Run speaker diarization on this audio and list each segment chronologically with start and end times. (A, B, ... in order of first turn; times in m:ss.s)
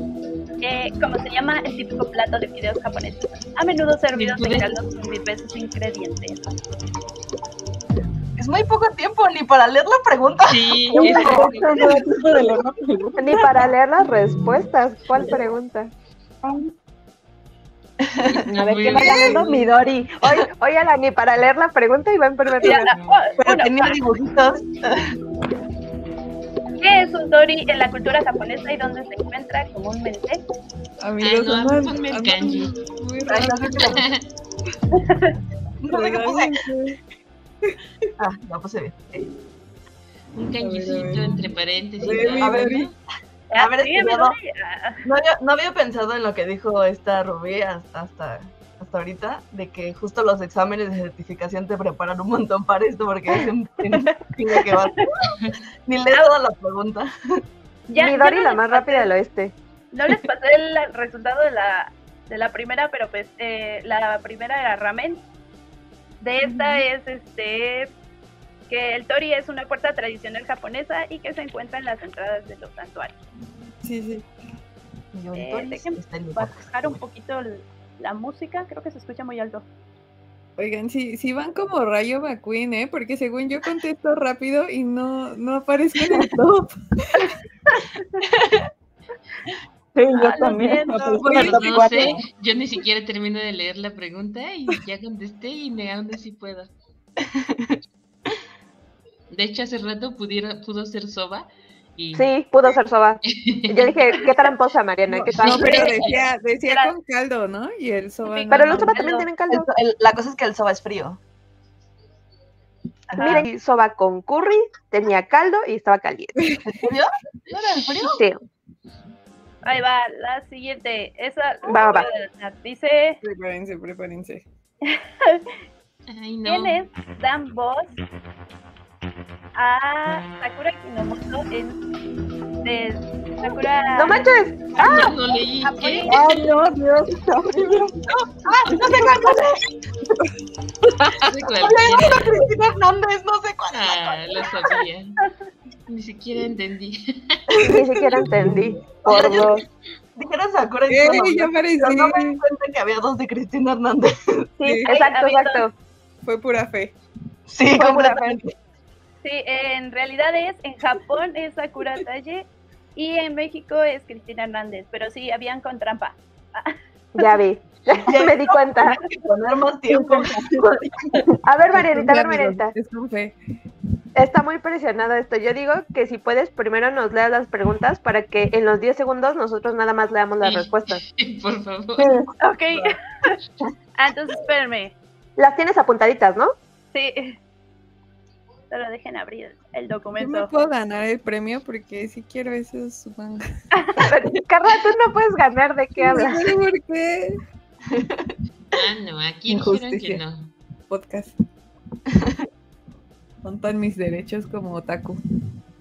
0:00.6-0:06.5 A
0:04.1-0:04.7 B
0:08.4-0:12.0 C
0:10.5-0:11.7 B
0:11.0-0:13.5 D
0:13.2-0:15.9 E
0:18.0-0:19.5 C
0:18.3-0:19.6 B
0:18.5-0:22.9 E
0:22.6-0:24.0 A
0:23.4-0:25.2 C
0:26.8-0:30.4 A
0:31.0-0:34.0 F
0:31.2-0:32.7 B
0:33.3-0:34.1 C
0:33.9-0:34.2 B
0:34.9-0:35.4 A
0:35.8-0:36.6 C
0:35.9-0:37.0 F
0:38.2-0:39.3 C
0:40.4-0:42.9 B
0:40.6-0:41.2 F
0:42.0-0:42.9 C
0:42.0-0:42.9 F
0:43.5-0:45.0 A
0:43.6-0:44.4 C
0:45.0-0:57.1 C
0:57.9-0:59.1 A
0:58.0-0:59.6 E
0:59.9-1:05.2 A
1:06.2-1:07.9 A
1:06.4-1:06.8 F
1:08.7-1:13.2 A
1:13.8-1:14.2 F
1:15.1-1:17.0 C
1:15.4-1:19.7 A
1:20.6-1:27.4 F
1:28.2-1:28.7 C
1:30.0-1:32.2 D
1:30.2-1:31.0 A
1:31.2-1:32.0 F
1:31.2-1:31.5 C
1:31.3-1:36.7 B
1:37.2-1:37.8 C
1:39.3-1:42.3 B
1:42.1-1:46.0 E
1:43.3-1:44.3 B
1:45.1-1:45.4 C
1:45.4-1:49.0 F
1:45.6-1:46.1 A
1:46.7-1:46.9 A
1:48.3-1:49.3 A
1:48.5-1:49.7 E
1:49.5-1:51.2 C
1:53.1-1:53.5 A
1:53.1-1:56.4 E
1:56.7-1:58.2 C
1:58.0-1:58.4 E
1:59.6-2:03.2 A
2:01.7-2:02.1 E
2:03.2-2:04.5 F
2:04.9-2:05.5 A
2:06.1-2:06.8 B
2:06.4-2:08.0 A
2:09.6-2:11.8 A
2:12.6-2:14.3 A
2:14.0-2:15.1 E
2:14.8-2:16.2 B
2:15.6-2:16.2 A
2:16.1-2:17.9 D
2:18.1-2:19.6 C
2:20.9-2:21.2 F
2:21.2-2:22.4 B
2:21.5-2:24.6 C
2:23.7-2:25.2 B
2:25.9-2:27.4 B
2:27.6-2:27.9 F
2:27.6-2:29.6 E
2:29.0-2:29.6 C
2:30.2-2:34.5 C
2:30.9-2:32.4 F
2:34.6-2:34.9 F
2:34.6-2:35.7 E
2:34.9-2:35.7 A
2:36.2-2:37.0 F
2:37.5-2:38.5 C
2:37.7-2:38.4 E
2:39.2-2:46.8 A
2:47.2-2:49.0 E
2:48.0-2:51.3 C
2:51.4-2:52.7 E
2:51.7-2:53.4 F
2:54.2-3:01.0 E
3:00.4-3:02.2 B
3:02.4-3:03.4 A
3:04.0-3:05.0 A
3:05.4-3:06.5 E
3:06.9-3:07.4 A
3:08.7-3:10.5 A
3:10.2-3:13.4 F
3:13.8-3:14.0 A
3:14.0-3:16.4 E
3:16.0-3:17.4 F
3:17.9-3:18.3 C
3:18.7-3:20.5 B
3:19.5-3:20.2 F
3:20.9-3:21.3 F
3:22.1-3:22.4 C
3:23.4-3:25.2 F